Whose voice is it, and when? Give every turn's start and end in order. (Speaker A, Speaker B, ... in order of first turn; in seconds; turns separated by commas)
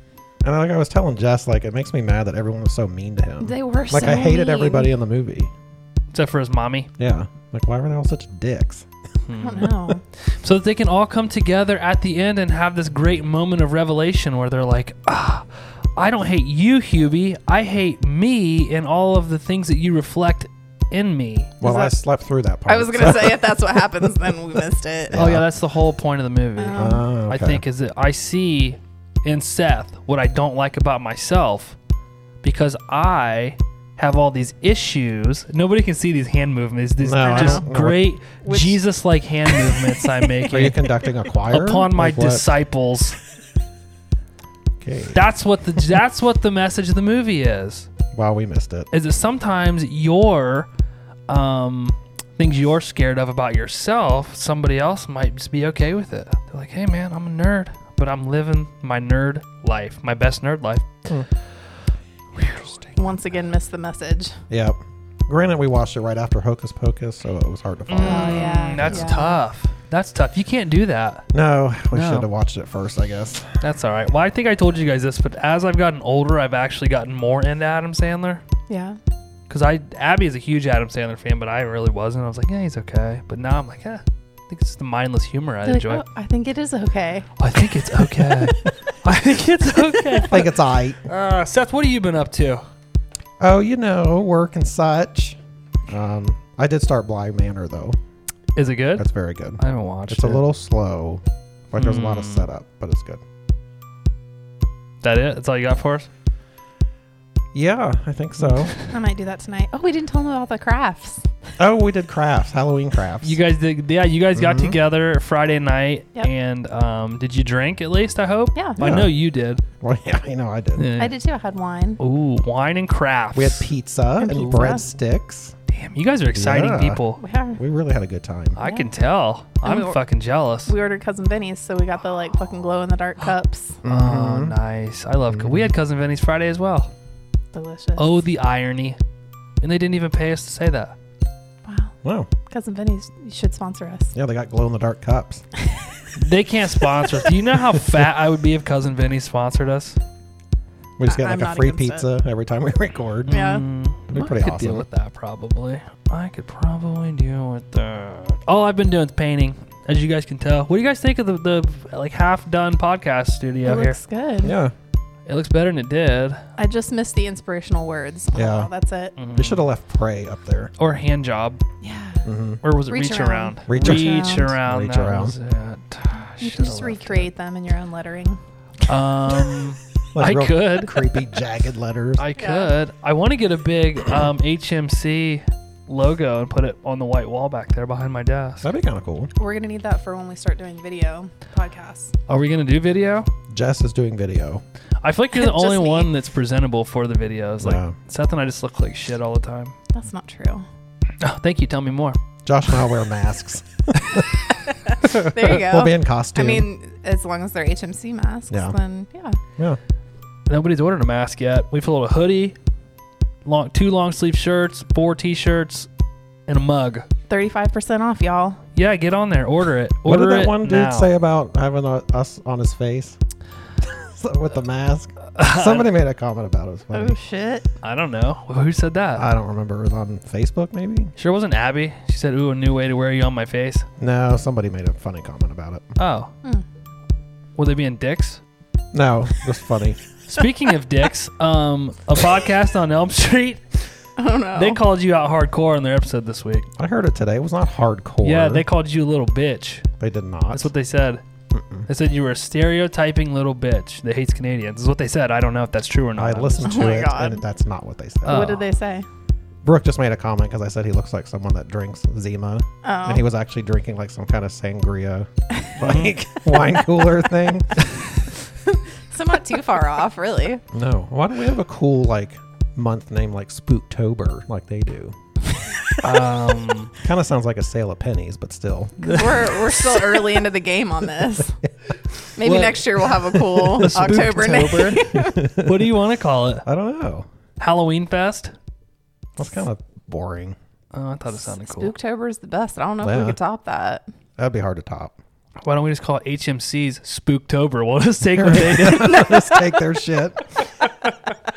Speaker A: 0.4-5.5, Speaker B: 3.4-4.9, Speaker C: 6.1-6.9, Speaker A: 7.0-8.9, Speaker C: 9.3-9.8, Speaker B: 9.3-10.0, Speaker C: 10.3-21.6, Speaker A: 21.6-23.8, Speaker B: 21.6-21.9, Speaker B: 22.7-25.2, Speaker A: 25.1-25.5, Speaker C: 25.1-31.8, Speaker B: 26.6-27.1, Speaker A: 26.8-27.6, Speaker C: 32.4-40.8, Speaker A: 37.0-38.0, Speaker B: 37.2-37.7, Speaker B: 38.4-38.8, Speaker B: 39.5-40.9, Speaker A: 40.5-42.5, Speaker C: 41.5-43.2, Speaker A: 44.8-45.2, Speaker C: 45.1-47.9, Speaker A: 48.1-48.9, Speaker C: 48.9-50.7, Speaker C: 51.3-61.0, Speaker C: 62.4-62.8, Speaker B: 63.0-64.4, Speaker A: 64.5-69.2, Speaker C: 67.9-71.3, Speaker B: 68.0-69.4, Speaker A: 71.3-73.6, Speaker C: 71.9-72.3, Speaker C: 73.6-78.4, Speaker B: 78.7-79.0, Speaker C: 79.5-86.0, Speaker B: 85.7-87.3, Speaker C: 87.4-90.5, Speaker A: 90.2-91.1, Speaker C: 91.1-92.6, Speaker A: 93.4-98.0, Speaker C: 98.6-99.1, Speaker A: 99.0-103.2, Speaker C: 99.6-100.4, Speaker C: 101.7-102.5, Speaker C: 105.0-106.1, Speaker A: 107.5-108.7, Speaker C: 108.4-108.8, Speaker B: 108.9-111.3, Speaker A: 111.6-113.4, Speaker C: 113.2-119.6, Speaker A: 114.3-114.8, Speaker B: 118.5-118.8, Speaker A: 118.8-119.1, Speaker A: 119.8-120.9, Speaker C: 120.8-121.2, Speaker B: 121.0-122.0, Speaker C: 122.0-123.7, Speaker A: 123.3-125.5, Speaker B: 124.2-124.8, Speaker C: 125.7-127.2, Speaker A: 126.3-127.0, Speaker B: 127.2-127.6, Speaker A: 127.6-128.6, Speaker C: 128.6-130.7, Speaker B: 128.6-128.9, Speaker B: 129.6-130.0, Speaker B: 130.7-133.8, Speaker A: 133.8-134.6, Speaker C: 133.9-136.9, Speaker A: 135.3-135.7, Speaker B: 137.5-138.2, Speaker C: 138.0-139.0, Speaker C: 139.6-140.9, Speaker B: 141.7-141.9, Speaker A: 142.0-142.3, Speaker B: 142.5-144.1, Speaker A: 144.2-145.4, Speaker C: 146.2-150.0, Speaker A: 151.0-153.4, Speaker B: 151.1-152.1, Speaker C: 153.3-164.0, Speaker B: 153.3-153.7, Speaker A: 154.1-154.9, Speaker B: 163.6-164.6, Speaker A: 164.4-164.7, Speaker C: 165.3-166.4, Speaker B: 166.6-169.2, Speaker A: 168.3-168.7, Speaker C: 169.2-169.6, Speaker A: 169.3-170.7, Speaker C: 170.8-171.6, Speaker B: 171.8-172.3, Speaker A: 172.2-172.6, Speaker C: 172.6-177.3, Speaker B: 172.9-174.6, Speaker A: 173.7-175.4, Speaker B: 176.4-178.4, Speaker C: 178.8-181.0, Speaker A: 180.2-182.2, Speaker C: 182.2-188.7, Speaker B: 182.4-182.7, Speaker A: 188.6-189.3, Speaker B: 189.4-192.1, Speaker C: 192.3-193.3, Speaker A: 193.5-194.6, Speaker C: 195.0-199.8, Speaker B: 195.4-196.1, Speaker A: 197.6-197.9, Speaker B: 199.9-200.7, Speaker C: 201.2-202.2, Speaker A: 202.4-204.3, Speaker B: 204.7-209.4, Speaker A: 205.0-206.7, Speaker C: 210.5-212.6, Speaker C: 213.4-215.9, Speaker C: 216.5-217.1, Speaker B: 217.3-218.6, Speaker C: 218.8-221.1, Speaker A: 220.1-223.2, Speaker A: 223.8-227.2, Speaker C: 225.3-225.9, Speaker B: 226.9-227.7, Speaker C: 227.8-229.3, Speaker A: 229.2-231.1, Speaker C: 231.2-233.9, Speaker A: 234.0-235.9, Speaker C: 236.0-236.3, Speaker C: 237.6-238.4, Speaker A: 238.9-240.0, Speaker C: 240.3-243.8, Speaker B: 244.2-244.8, Speaker C: 244.6-246.7, Speaker A: 246.8-248.7, Speaker C: 248.2-249.9, Speaker A: 250.0-250.7, Speaker C: 250.5-251.2, Speaker A: 251.5-251.9, Speaker C: 251.9-256.9, Speaker A: 256.2-258.5, Speaker B: 256.6-257.4, Speaker C: 258.2-258.7, Speaker B: 258.3-259.1, Speaker A: 259.6-267.8, Speaker B: 262.8-263.2, Speaker B: 265.5-265.8, Speaker C: 265.8-266.1, Speaker B: 266.5-266.8, Speaker B: 268.7-270.6, Speaker A: 270.7-275.1, Speaker C: 276.0-276.9, Speaker A: 277.0-279.3, Speaker C: 279.0-280.4, Speaker B: 279.0-281.6, Speaker B: 282.4-285.4, Speaker C: 282.4-286.6, Speaker A: 285.2-285.9, Speaker A: 286.6-287.3, Speaker C: 287.6-288.5, Speaker A: 289.4-290.6, Speaker C: 290.9-291.9, Speaker B: 291.3-294.1, Speaker A: 293.0-293.4, Speaker A: 294.4-295.2, Speaker C: 295.6-299.6, Speaker A: 298.4-300.7, Speaker C: 300.8-301.1